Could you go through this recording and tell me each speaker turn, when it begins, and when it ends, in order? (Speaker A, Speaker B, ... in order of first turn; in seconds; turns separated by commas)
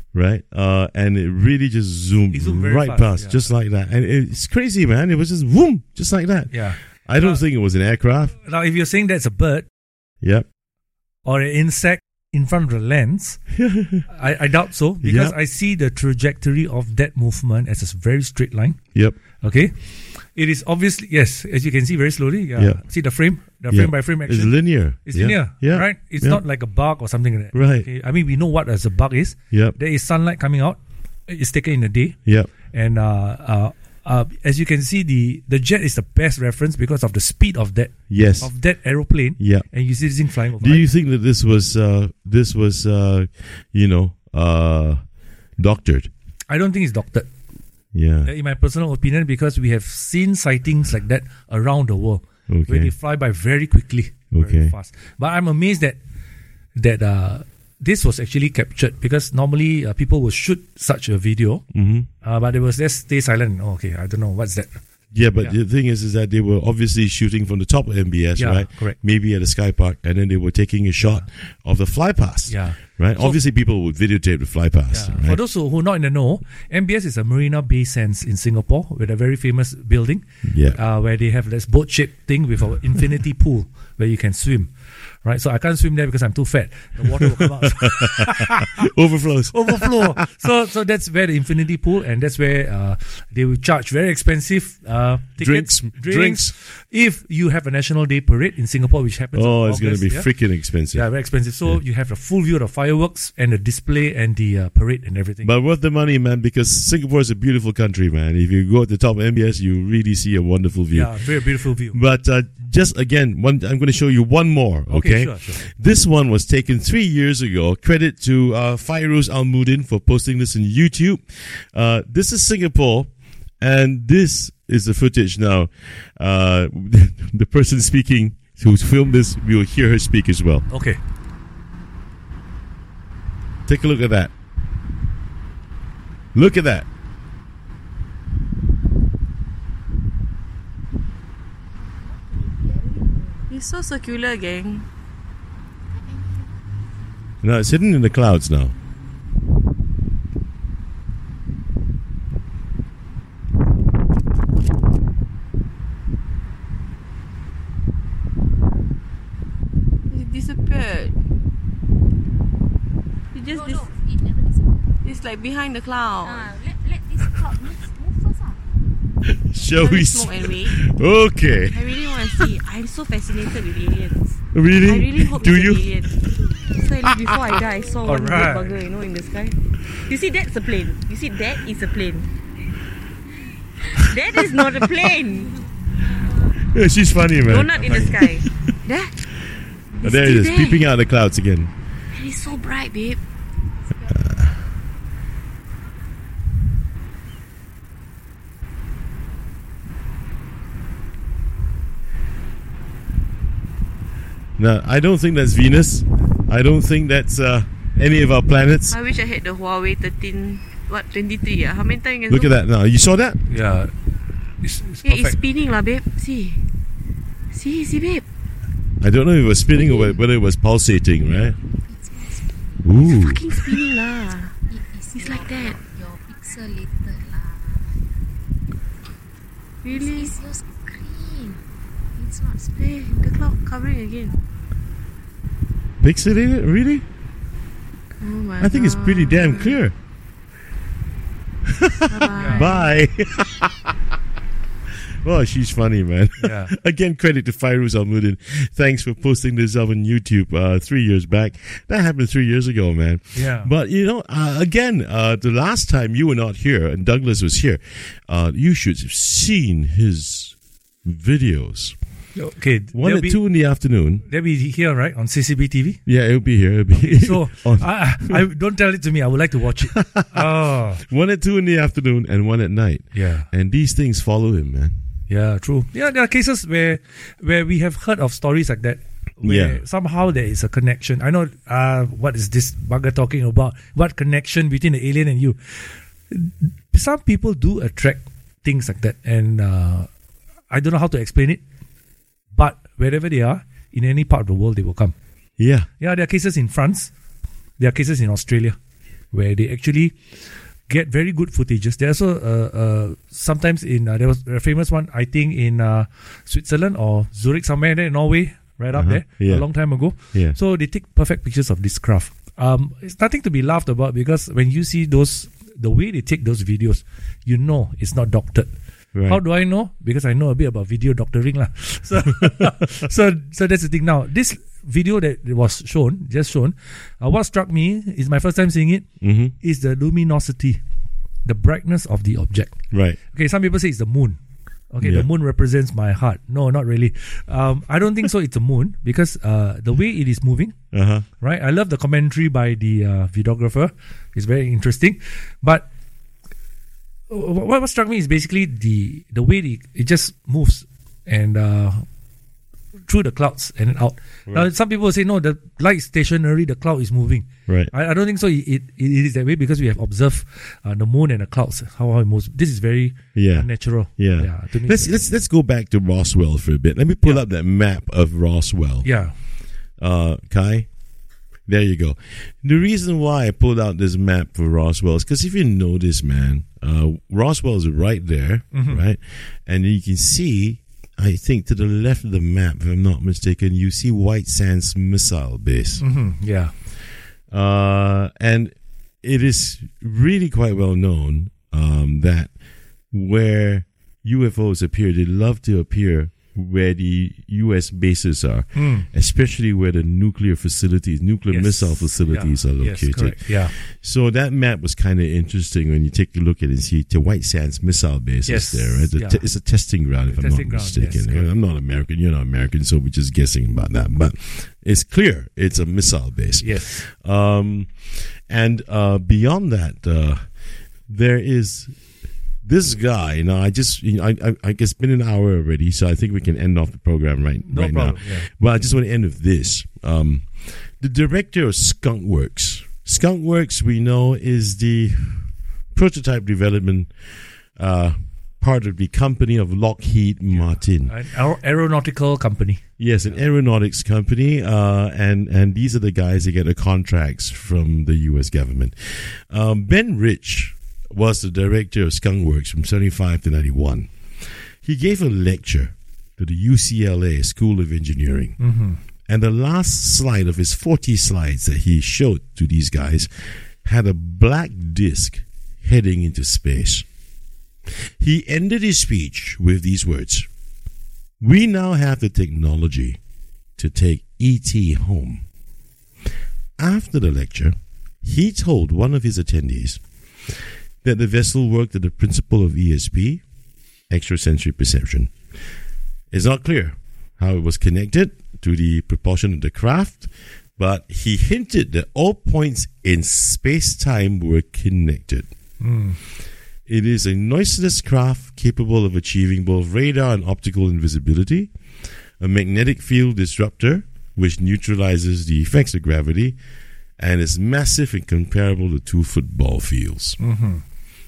Speaker A: 0.1-8.3, Speaker B: 2.3-3.5, Speaker B: 6.5-7.4, Speaker B: 8.4-9.7, Speaker B: 11.2-13.5, Speaker A: 13.6-14.0, Speaker B: 14.1-40.9, Speaker A: 15.0-15.3, Speaker A: 23.7-26.4, Speaker A: 27.5-27.9, Speaker A: 29.5-29.8, Speaker A: 32.2-32.5, Speaker A: 38.1-38.5, Speaker A: 39.4-39.6, Speaker A: 40.6-46.1, Speaker B: 46.5-47.3, Speaker A: 47.9-48.3, Speaker B: 48.2-56.0, Speaker A: 52.5-52.9, Speaker A: 54.3-54.7, Speaker B: 56.8-61.7, Speaker A: 61.7-62.1, Speaker B: 62.2-65.5, Speaker A: 65.1-75.4, Speaker B: 68.4-69.0, Speaker B: 72.5-73.4, Speaker B: 74.9-88.8, Speaker A: 80.4-80.8, Speaker A: 87.4-90.2, Speaker B: 89.5-100.3, Speaker A: 95.4-96.5, Speaker A: 99.3-101.0, Speaker B: 100.9-105.5, Speaker A: 105.4-111.4, Speaker B: 110.9-112.0, Speaker A: 111.9-130.7, Speaker B: 114.9-115.6, Speaker B: 130.7-131.0, Speaker A: 133.7-134.3, Speaker A: 136.3-136.9, Speaker C: 142.0-143.5, Speaker D: 143.5-144.8, Speaker C: 146.0-146.5, Speaker A: 147.4-148.7, Speaker D: 160.1-161.2, Speaker D: 163.3-163.9, Speaker C: 163.5-164.9, Speaker D: 165.0-166.4, Speaker C: 166.2-168.6, Speaker A: 169.2-171.8, Speaker D: 169.7-170.8, Speaker D: 171.7-182.3, Speaker A: 174.5-175.9, Speaker B: 178.0-178.7, Speaker D: 184.0-185.5, Speaker A: 186.6-188.7, Speaker D: 187.4-189.2, Speaker B: 187.7-188.1, Speaker D: 189.9-190.9, Speaker A: 190.0-191.7, Speaker D: 192.1-193.2, Speaker C: 193.9-194.2, Speaker A: 194.1-194.6, Speaker A: 204.6-208.9, Speaker D: 208.9-212.5, Speaker A: 212.3-213.4, Speaker B: 213.5-214.0, Speaker B: 214.6-215.4, Speaker D: 215.0-216.7, Speaker D: 217.5-218.2, Speaker A: 219.0-221.6, Speaker D: 219.8-220.1, Speaker C: 221.7-223.8, Speaker A: 222.8-223.3, Speaker D: 223.0-224.5, Speaker C: 224.7-227.9, Speaker D: 225.1-225.8, Speaker D: 229.8-230.4, Speaker C: 229.9-231.6, Speaker C: 232.1-232.8, Speaker D: 232.8-234.4, Speaker A: 236.0-237.0, Speaker D: 238.2-239.8, Speaker A: 238.6-239.9, Speaker A: 241.8-243.8, Speaker D: 242.1-242.9, Speaker B: 242.3-242.8, Speaker A: 245.2-262.0, Speaker B: 246.4-246.7, Speaker B: 253.3-253.7, Speaker B: 262.3-263.4, Speaker A: 262.9-264.2, Speaker B: 264.2-266.0, Speaker A: 266.1-268.4, Speaker B: 266.9-271.0, Speaker A: 270.0-270.5, Speaker A: 271.0-275.0, Speaker B: 273.1-273.5, Speaker B: 275.3-290.1, Speaker A: 279.4-279.8, Speaker B: 290.7-291.6, Speaker B: 292.5-295.1, Speaker A: 295.6-295.9, Speaker B: 296.0-297.1, Speaker B: 297.8-298.8, Speaker B: 299.3-318.7, Speaker A: 308.9-310.6, Speaker A: 319.1-319.4, Speaker B: 319.2-329.1, Speaker A: 329.2-329.5, Speaker B: 329.6-330.8, Speaker B: 331.4-334.4, Speaker A: 332.9-333.2, Speaker B: 334.9-345.9, Speaker A: 340.9-341.2, Speaker B: 347.3-352.1, Speaker B: 353.1-365.2, Speaker A: 363.3-369.3, Speaker B: 369.0-369.3, Speaker A: 370.0-370.9, Speaker A: 371.6-386.0, Speaker B: 378.7-379.0, Speaker B: 386.0-386.7, Speaker A: 387.5-392.5, Speaker A: 393.1-422.0, Speaker B: 398.7-399.1, Speaker B: 401.5-403.7, Speaker B: 408.5-411.5, Speaker B: 416.6-417.1, Speaker A: 422.6-441.1, Speaker B: 427.6-428.5, Speaker B: 440.5-443.4, Speaker A: 443.0-458.6, Speaker B: 458.6-459.0, Speaker A: 459.3-467.1, Speaker A: 468.2-470.5, Speaker A: 471.4-473.2, Speaker A: 473.8-475.4, Speaker A: 476.8-480.5, Speaker A: 481.0-483.4, Speaker A: 484.1-485.3, Speaker A: 486.3-495.5, Speaker B: 495.8-496.2, Speaker A: 496.9-501.7, Speaker A: 502.4-506.6, Speaker A: 507.2-510.4, Speaker B: 510.4-510.8